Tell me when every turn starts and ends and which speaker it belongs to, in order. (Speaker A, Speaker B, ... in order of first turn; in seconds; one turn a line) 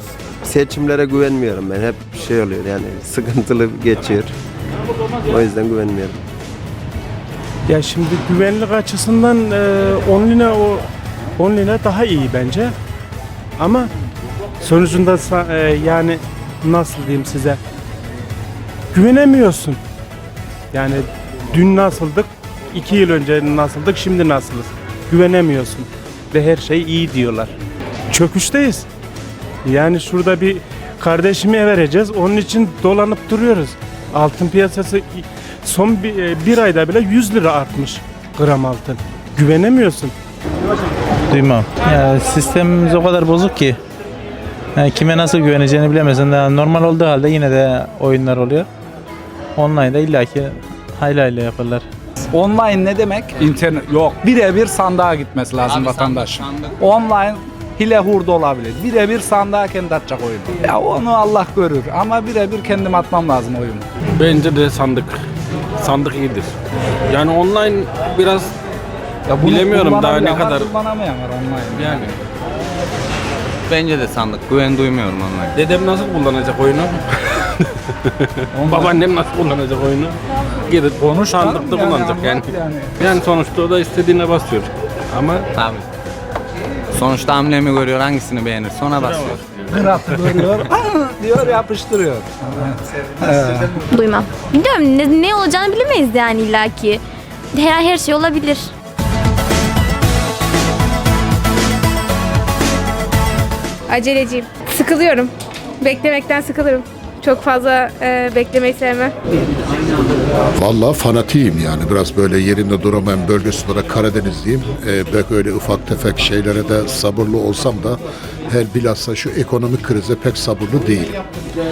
Speaker A: 0.4-4.3
Speaker A: 5.3-6.2
Speaker B: 7.7-10.9
Speaker B: 11.4-12.7
Speaker B: 13.6-13.9
Speaker B: 14.6-17.6
Speaker B: 18.9-19.8
Speaker B: 20.7-27.5
Speaker B: 28.1-28.9
Speaker B: 29.6-40.1
Speaker C: 41.3-43.8
Speaker C: 44.8-48.7
Speaker C: 49.5-51.9
Speaker D: 52.3-63.8
Speaker E: 55.7-56.7
Speaker F: 64.2-65.2
Speaker F: 65.8-66.5
Speaker F: 67.1-68.5
Speaker D: 69.3-72.1
Speaker F: 69.4-70.7
Speaker F: 71.7-72.1
Speaker E: 73.7-75.6
Speaker F: 75.5-77.0
Speaker D: 78.5-79.0
Speaker F: 78.7-85.5
Speaker D: 81.0-82.9
Speaker E: 85.5-85.8
Speaker E: 86.9-89.5
Speaker D: 89.7-93.8
Speaker G: 93.9-98.7
Speaker H: 103.9-109.1
Speaker I: 110.5-121.2